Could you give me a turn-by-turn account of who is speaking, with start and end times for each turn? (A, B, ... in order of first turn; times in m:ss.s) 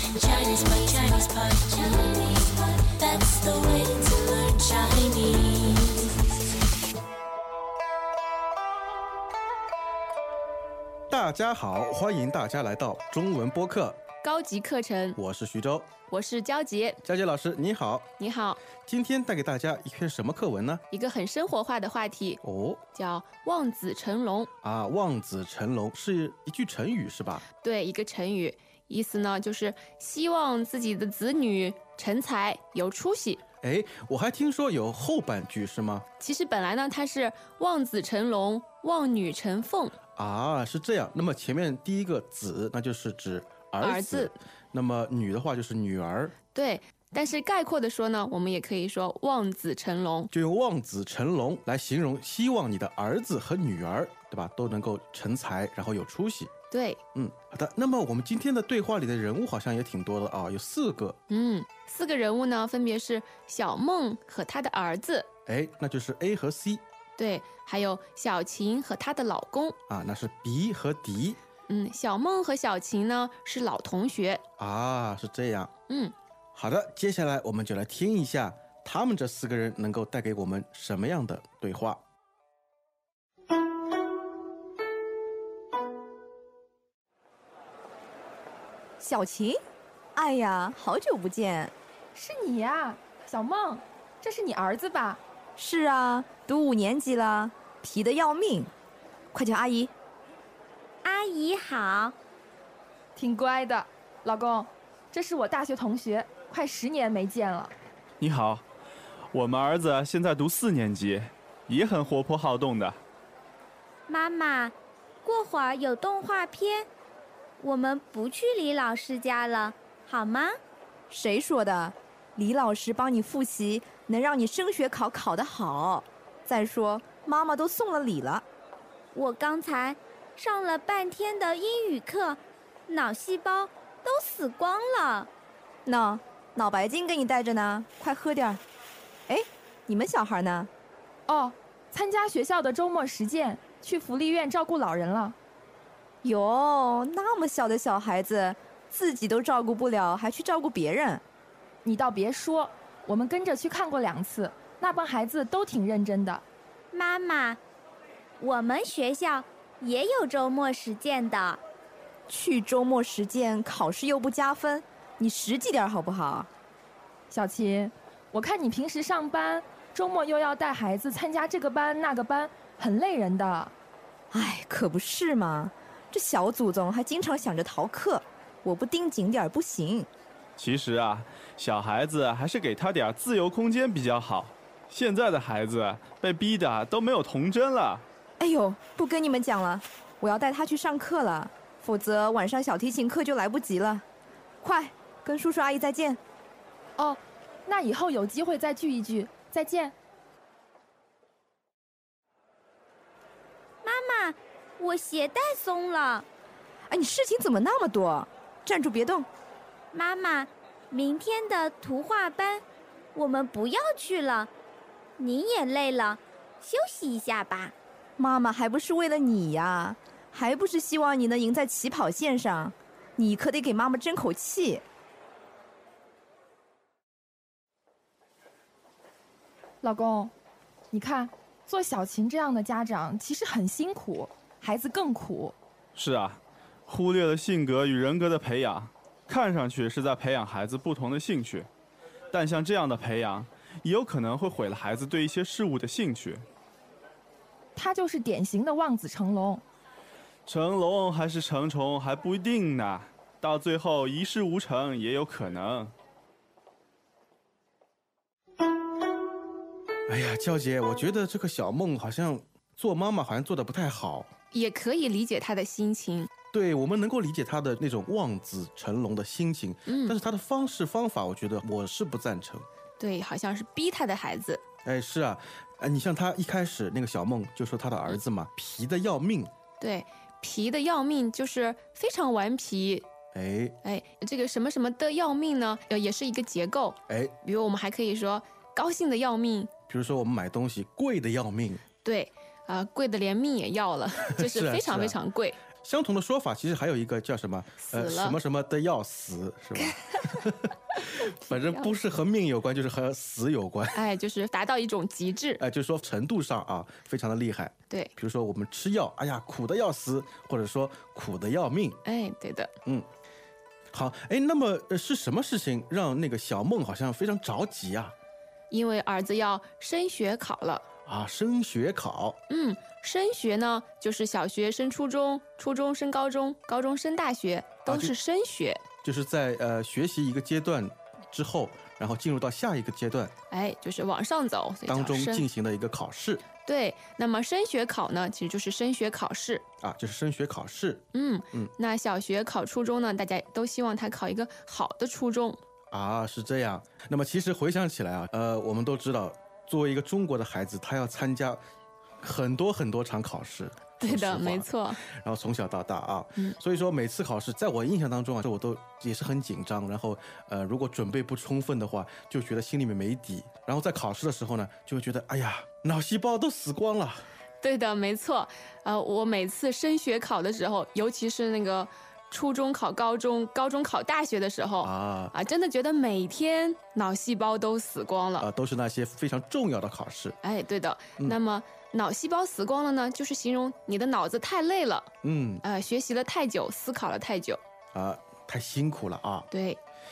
0:00.2-0:06.1 A
0:11.1-0:14.0 B
0:14.2-0:15.2 C
0:15.2-0:15.9 B
0:16.1-0:17.0 C
0:17.0-0:18.1 B
0:18.2-0:18.6 C
0:18.8-0:20.8 B
0:20.9-0:22.4 C
0:22.4-0:22.8 B
0:22.9-0:24.5 C
0:24.6-0:27.5 B
0:27.6-0:33.4 C
0:33.6-0:36.1 B
0:36.2-0:39.9 C
0:40.2-0:46.4 B
0:43.8-0:44.4 C
0:46.5-0:50.3 C
0:50.3-0:56.5 B
0:56.7-0:57.0 C
0:57.1-1:01.2 B
1:01.3-1:05.3 C
1:05.5-1:06.8 B
1:07.2-1:09.8 C
1:09.9-1:11.4 B
1:11.7-1:14.4 C
1:14.6-1:15.7 B
1:16.6-1:22.0 B
1:29.0-1:29.6 D
1:30.2-1:31.7 D
1:32.1-1:35.2 E
1:35.6-1:38.7 D
1:39.3-1:39.9 D
1:41.0-1:42.2 F
1:43.2-1:47.8 E
1:48.2-1:48.6 G
1:49.3-1:53.0 G
1:54.1-1:56.9 F
1:57.6-2:00.6 F
2:01.1-2:08.4 D
2:09.1-2:15.3 F
2:15.9-2:18.6 D
2:19.3-2:20.7 D
2:21.3-2:25.4 E
2:26.2-2:31.2 D
2:31.8-2:36.4 E
2:36.9-2:37.6 F
2:38.4-2:41.6 F
2:42.3-2:46.5 D
2:47.3-2:53.7 E
2:54.3-3:00.1 D
3:00.6-3:08.0 G
3:08.4-3:14.0 D
3:14.6-3:16.2 D
3:17.0-3:20.0 E
3:23.8-3:26.2 F
3:26.9-3:29.3 D
3:29.9-3:32.6 F
3:33.2-3:34.5 F
3:35.2-3:37.7 F
3:38.2-3:44.8 D
3:49.8-3:50.3 E
3:50.9-3:55.6 E
3:56.0-4:01.7 G
4:02.3-4:06.4 G
4:07.8-4:09.6 E
4:10.5-4:15.9 G
4:20.1-4:24.3 B
4:24.5-4:26.3 C
4:26.5-4:32.7 B
4:29.9-4:30.2 C
4:33.0-4:34.6 C
4:34.8-4:39.5 B
4:39.8-4:43.1 C
4:43.3-4:43.8 B
4:43.8-4:49.7 C
4:47.1-4:47.3 B
4:49.9-4:51.8 B
4:52.0-4:55.6 C
4:54.4-4:55.2 B
4:55.8-5:04.0 B
4:57.8-4:58.4 C
5:01.2-5:01.9 C
5:03.9-5:05.6 C
5:05.6-5:12.0 B
5:12.0-5:12.7 C
5:13.9-5:18.2 B
5:18.7-5:20.8 C
5:21.1-5:22.4 B
5:22.5-5:28.8 C
5:27.9-5:28.1 B
5:29.0-5:33.3 B
5:33.5-5:35.5 C
5:34.9-5:36.4 B
5:36.6-5:39.6 C
5:39.8-5:41.7 B
5:41.1-5:45.6 C
5:45.9-5:51.6 B
5:52.2-6:07.3 B
5:54.0-5:55.0 C
6:07.6-6:18.5 C
6:14.8-6:15.3 B
6:18.4-6:20.4 B
6:20.4-6:25.1 C
6:25.2-6:25.6 B
6:25.6-6:27.6 C
6:27.9-6:29.5 B
6:29.5-6:29.8 C